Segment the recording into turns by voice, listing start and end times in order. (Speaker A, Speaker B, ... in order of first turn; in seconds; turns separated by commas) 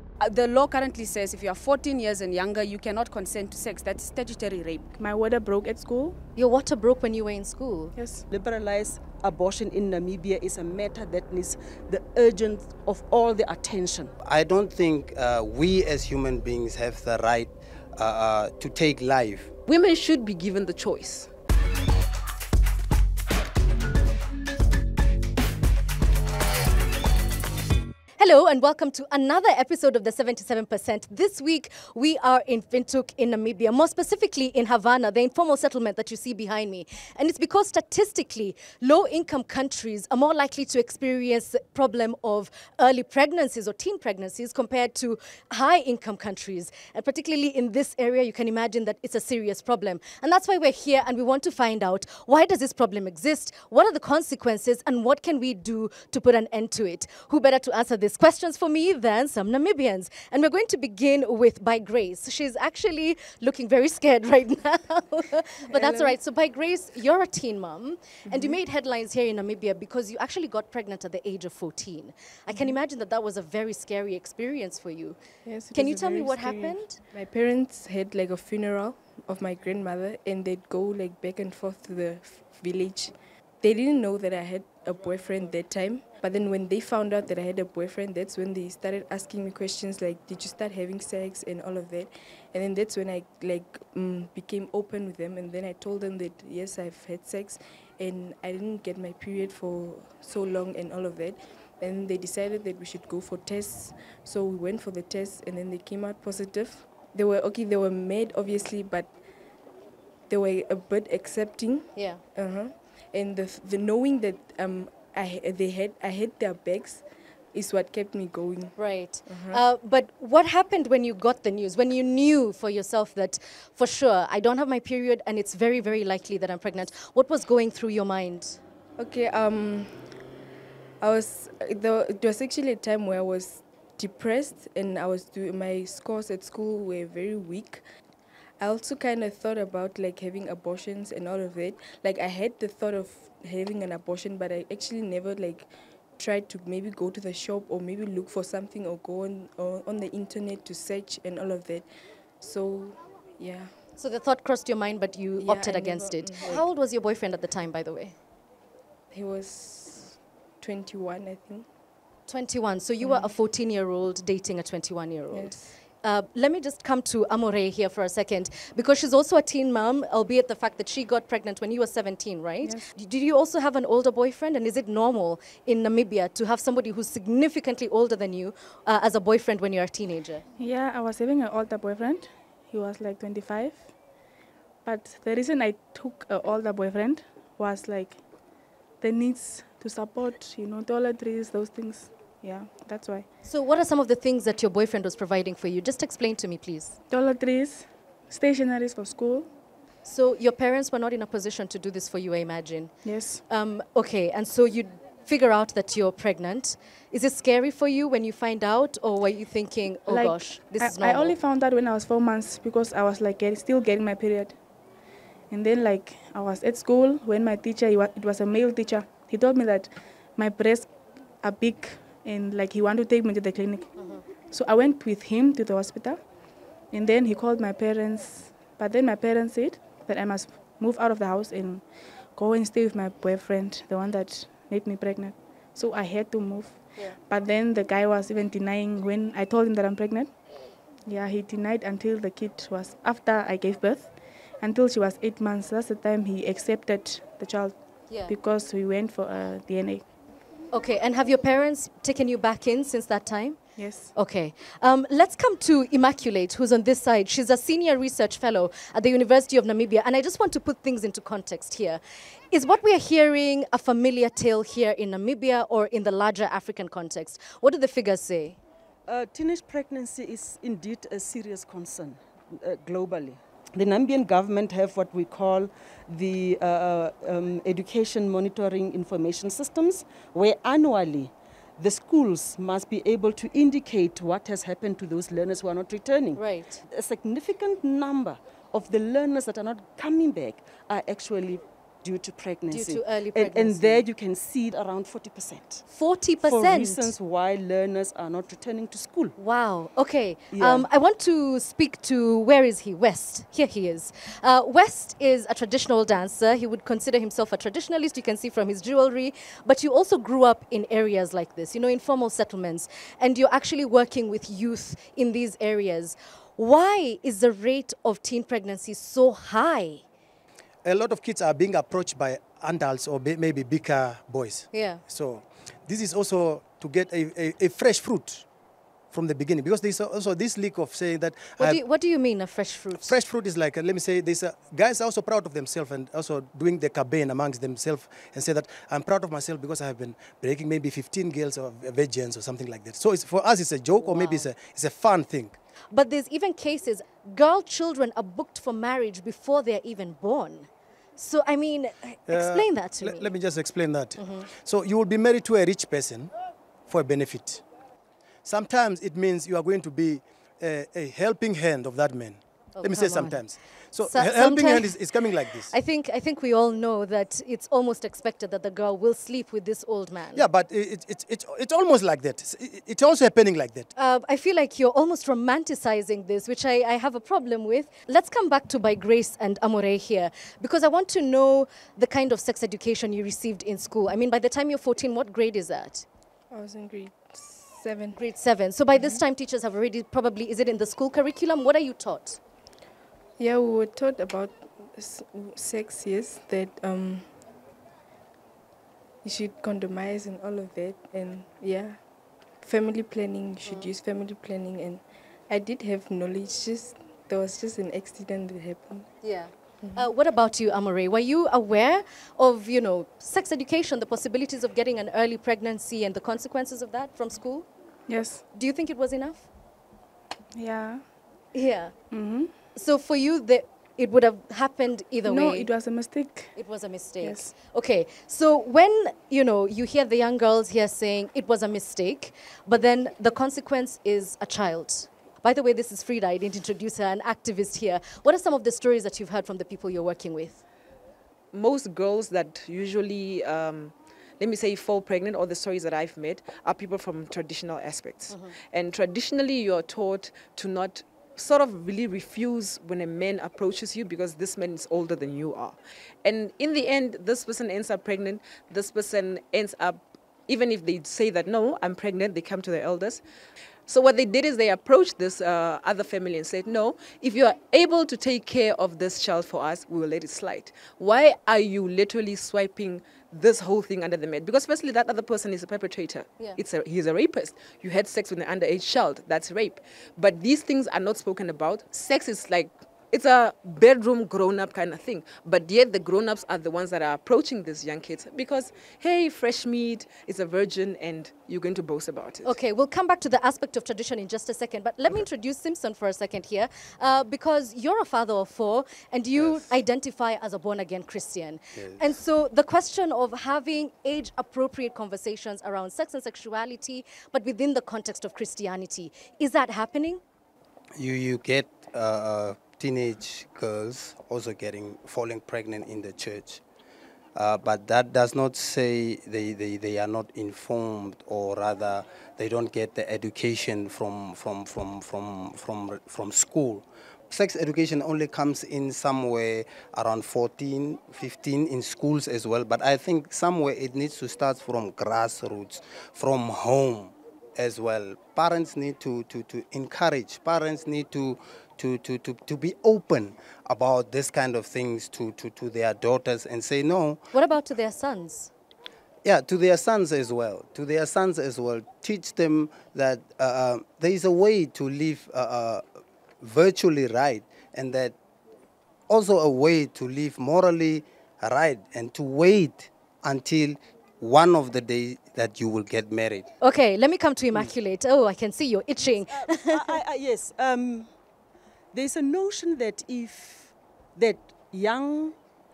Speaker A: 0.2-4.9, Speaker B: 5.0-6.2, Speaker C: 6.4-7.9, Speaker B: 8.0-8.2, Speaker D: 8.3-14.1, Speaker E: 14.2-19.5, Speaker F: 19.7-21.3, Speaker C: 28.2-75.2, Speaker G: 65.7-66.2, Speaker G: 68.3-68.6, Speaker G: 75.5-109.2, Speaker C: 75.7-77.0, Speaker G: 110.3-119.6, Speaker C: 112.0-112.2, Speaker C: 118.8-128.6, Speaker G: 129.0-130.1, Speaker G: 131.0-137.8, Speaker G: 138.6-151.9, Speaker G: 152.4-153.7, Speaker C: 154.0-158.2, Speaker G: 155.4-156.6, Speaker G: 159.1-161.7, Speaker C: 162.3-180.4, Speaker G: 163.0-163.3, Speaker G: 165.3-165.7, Speaker B: 172.6-172.9, Speaker B: 180.6-184.0, Speaker B: 184.8-188.3, Speaker B: 189.0-193.3, Speaker C: 193.4-197.0, Speaker B: 197.1-199.5, Speaker C: 200.1-211.4, Speaker B: 203.0-203.4, Speaker B: 210.1-214.6, Speaker B: 215.5-226.3, Speaker C: 224.0-224.2, Speaker B: 226.9-240.4, Speaker B: 241.1-250.1, Speaker C: 248.1-248.3, Speaker C: 250.7-262.0, Speaker B: 253.8-254.1, Speaker C: 262.5-268.6, Speaker D: 269.1-295.9, Speaker C: 286.4-286.8, Speaker C: 292.7-294.0, Speaker C: 295.9-297.1, Speaker D: 296.4-299.4, Speaker C: 299.4-320.0, Speaker D: 300.5-300.9, Speaker H: 320.8-328.5, Speaker C: 324.7-325.0, Speaker H: 329.1-331.8, Speaker C: 331.6-333.2, Speaker H: 332.9-345.6, Speaker C: 344.0-344.5, Speaker C: 345.9-353.3, Speaker H: 352.3-356.3, Speaker C: 354.2-354.5, Speaker H: 356.9-357.6, Speaker H: 358.4-365.7, Speaker C: 362.8-365.1, Speaker C: 365.7-370.4, Speaker H: 370.3-373.9, Speaker C: 374.0-386.1, Speaker G: 386.5-388.2, Speaker C: 388.2-392.4, Speaker G: 393.4-397.3, Speaker G: 399.2-402.0, Speaker G: 402.6-409.1, Speaker C: 403.6-403.9, Speaker C: 409.2-417.7, Speaker G: 409.8-410.1, Speaker B: 418.1-418.4, Speaker C: 418.5-419.5, Speaker B: 420.5-421.1, Speaker C: 421.5-422.0, Speaker B: 422.1-422.5, Speaker C: 422.7-425.7, Speaker B: 425.2-426.5, Speaker C: 426.5-440.6, Speaker B: 427.2-427.5, Speaker F: 441.5-463.2, Speaker F: 463.9-492.6, Speaker C: 492.4-510.2, Speaker E: 499.4-499.7, Speaker E: 501.8-502.1, Speaker E: 511.0-516.6, Speaker E: 517.4-547.2, Speaker C: 547.3-548.5, Speaker E: 549.2-555.8, Speaker E: 556.4-558.2, Speaker E: 559.1-566.5, Speaker C: 566.6-570.0, Speaker D: 569.3-571.1, Speaker D: 571.9-575.4